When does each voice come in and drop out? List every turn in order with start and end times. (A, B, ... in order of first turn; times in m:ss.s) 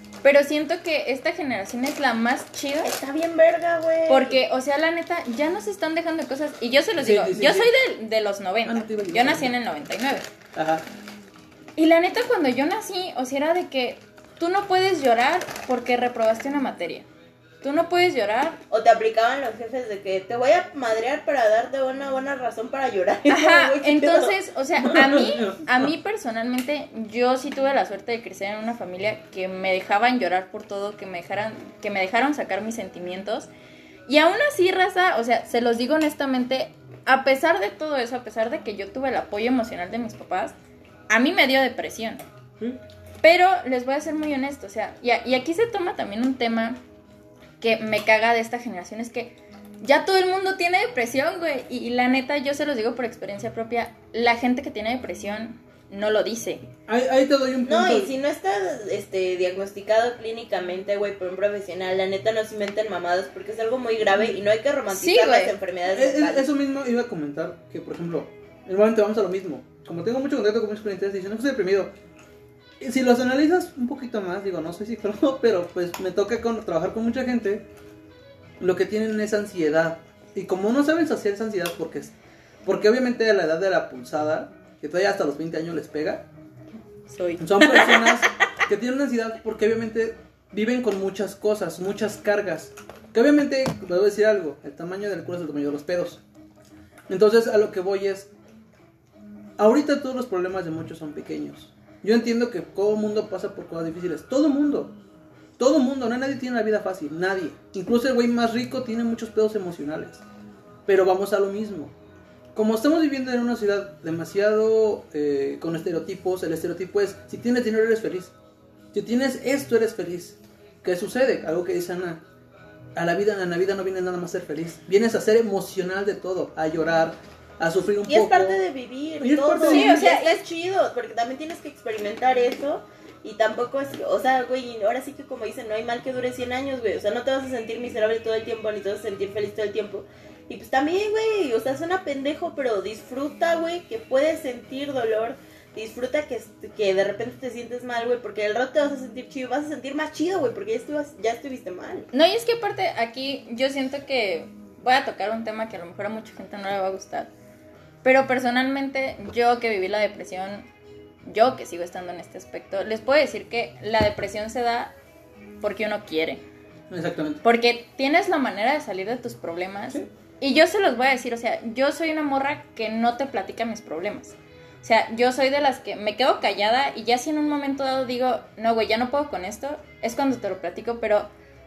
0:00.2-0:02.9 A
0:02.8-0:04.4 B
0:04.1-0:10.3 A
0:07.0-0:07.7 C
0:08.6-0:09.5 C
0:10.5-0:10.8 C
0:11.8-0:17.0 A
0:17.6-0:18.6 A
0:18.7-0:24.3 B
0:23.3-0:33.5 A
0:24.8-0:25.9 C
0:34.1-0:40.5 A
0:41.1-0:42.2 A
0:43.2-0:46.8 A
0:47.6-0:56.7 A
0:56.9-0:58.1 C
0:57.6-1:06.4 B
1:04.9-1:05.5 A
1:05.9-1:11.9 C
1:12.8-1:17.6 C
1:18.6-1:26.3 C
1:27.1-1:28.3 A
1:27.4-1:36.2 C
1:37.1-1:38.3 C
1:39.6-1:44.9 C
1:45.6-1:50.2 C
1:50.8-1:51.9 C
1:52.5-1:58.3 C
1:58.9-2:02.2 C
2:03.0-2:08.6 C
2:08.0-2:32.1 B
2:09.2-2:10.1 C
2:09.6-2:10.4 A
2:32.1-2:37.3 A
2:38.0-2:40.7 A
2:41.3-2:44.9 A
2:45.6-2:46.4 A
2:46.9-2:47.4 C
2:47.4-3:01.3 A